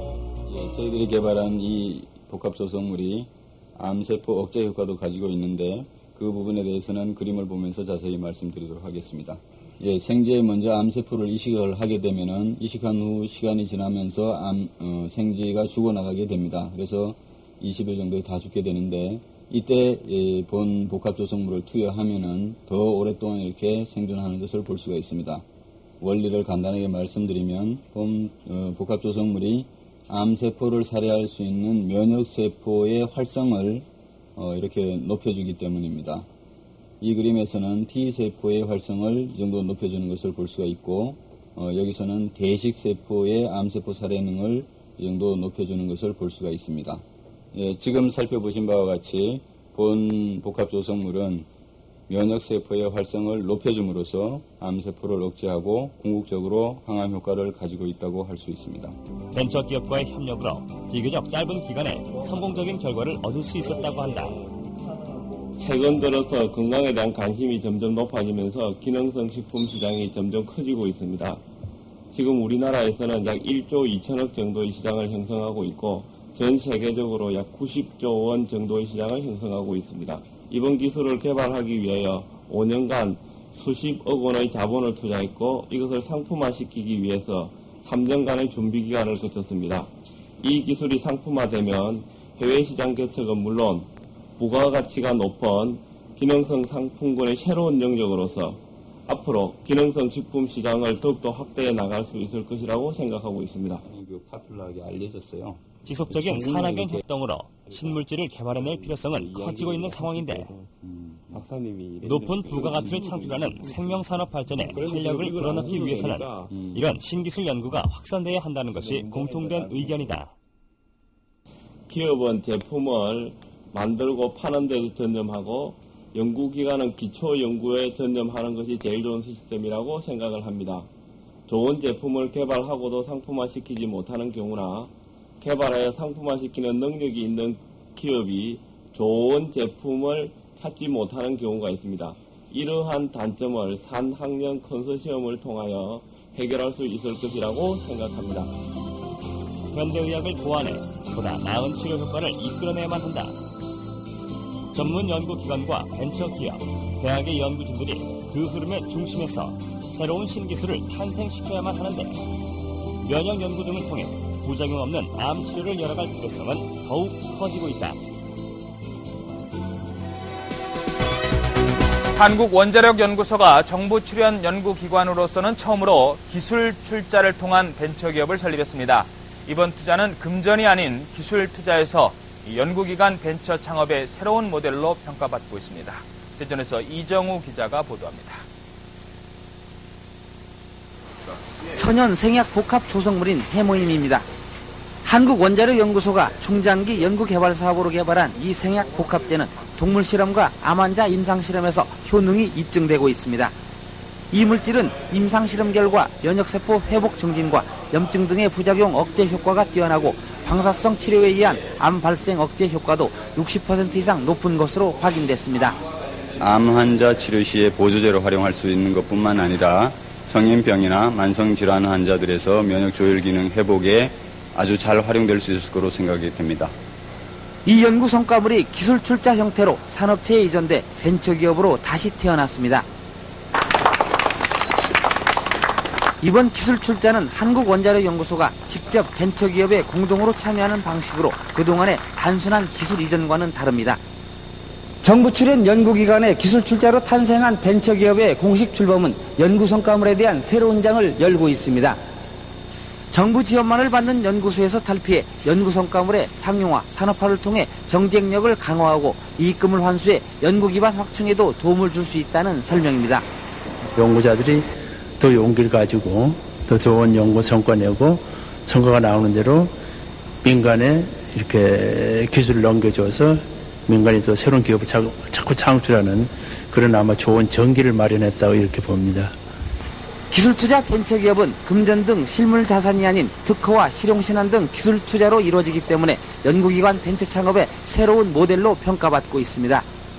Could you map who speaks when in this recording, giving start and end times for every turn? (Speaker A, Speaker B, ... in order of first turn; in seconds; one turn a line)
Speaker A: 0.5-25.4
Speaker A: 26.0-36.2
Speaker A: 37.0-47.0
Speaker A: 47.5-51.5
Speaker A: 52.1-58.9
Speaker B: 59.3-64.4
Speaker C: 65.6-71.4
Speaker C: 72.1-89.9
Speaker C: 90.4-103.8
Speaker A: 103.8-106.8
Speaker B: 105.8-110.5
Speaker C: 109.3-110.6
Speaker A: 110.8-111.2
Speaker C: 111.3-113.7
Speaker B: 112.0-120.3
Speaker C: 114.6-116.5
Speaker A: 116.5-116.8
Speaker C: 121.9-130.9
Speaker C: 131.5-148.5
Speaker B: 149.7-153.4
Speaker B: 154.7-162.2
Speaker B: 163.0-168.0
Speaker D: 172.2-188.4
Speaker E: 191.8-194.2
Speaker E: 195.0-203.5
Speaker E: 204.3-215.8
Speaker A: 216.3-226.7
Speaker E: 227.6-232.8
Speaker E: 236.2-244.0
Speaker E: 245.0-252.0
Speaker E: 253.1-263.2
Speaker F: 263.9-269.8
Speaker F: 270.4-279.4
Speaker E: 280.3-289.8